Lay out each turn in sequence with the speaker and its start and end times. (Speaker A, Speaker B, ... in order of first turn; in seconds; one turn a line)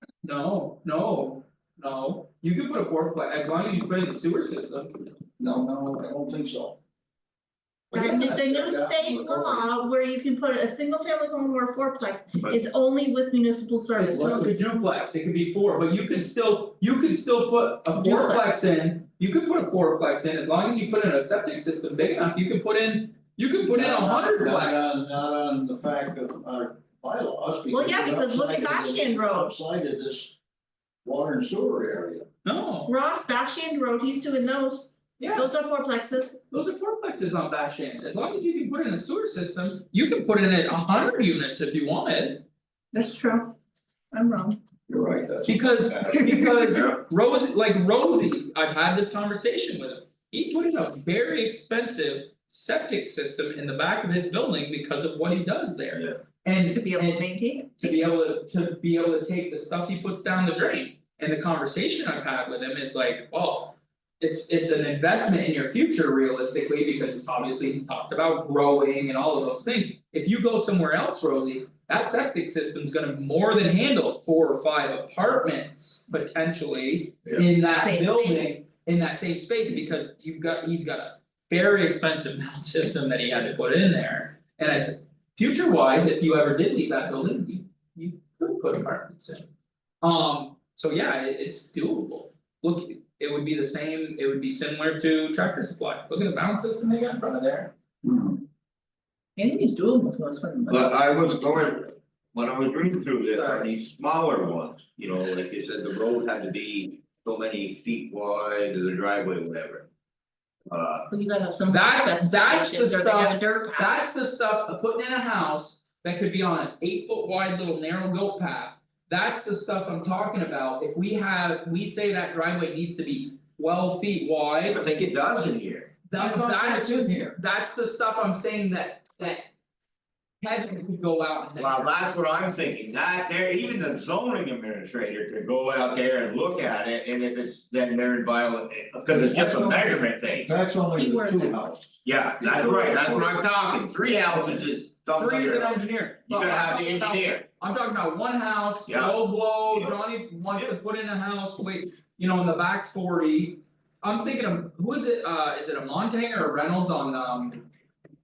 Speaker A: 0.2-4.9
Speaker B: 5.4-6.8
Speaker B: 7.9-9.8
Speaker C: 7.9-14.5
Speaker A: 14.0-25.0
Speaker B: 14.2-14.4
Speaker C: 18.0-18.4
Speaker B: 23.7-30.4
Speaker C: 27.7-29.5
Speaker B: 31.0-32.3
Speaker A: 32.5-32.9
Speaker C: 32.9-36.4
Speaker A: 35.2-35.5
Speaker A: 36.5-42.5
Speaker C: 42.9-43.5
Speaker C: 44.1-44.6
Speaker B: 44.9-46.1
Speaker A: 45.5-57.2
Speaker C: 46.1-46.9
Speaker C: 56.7-57.9
Speaker A: 57.8-89.5
Speaker C: 77.7-78.5
Speaker A: 90.0-97.7
Speaker B: 98.0-98.4
Speaker C: 99.4-100.9
Speaker D: 100.7-109.9
Speaker A: 103.4-103.7
Speaker D: 110.7-111.1
Speaker C: 111.1-114.0
Speaker A: 111.7-124.8
Speaker D: 124.7-125.9
Speaker A: 126.1-129.5
Speaker B: 126.2-127.4
Speaker A: 130.4-131.9
Speaker D: 131.6-140.5
Speaker B: 139.1-143.4
Speaker C: 140.9-141.6
Speaker D: 142.0-147.4
Speaker A: 145.2-157.7
Speaker D: 148.9-149.2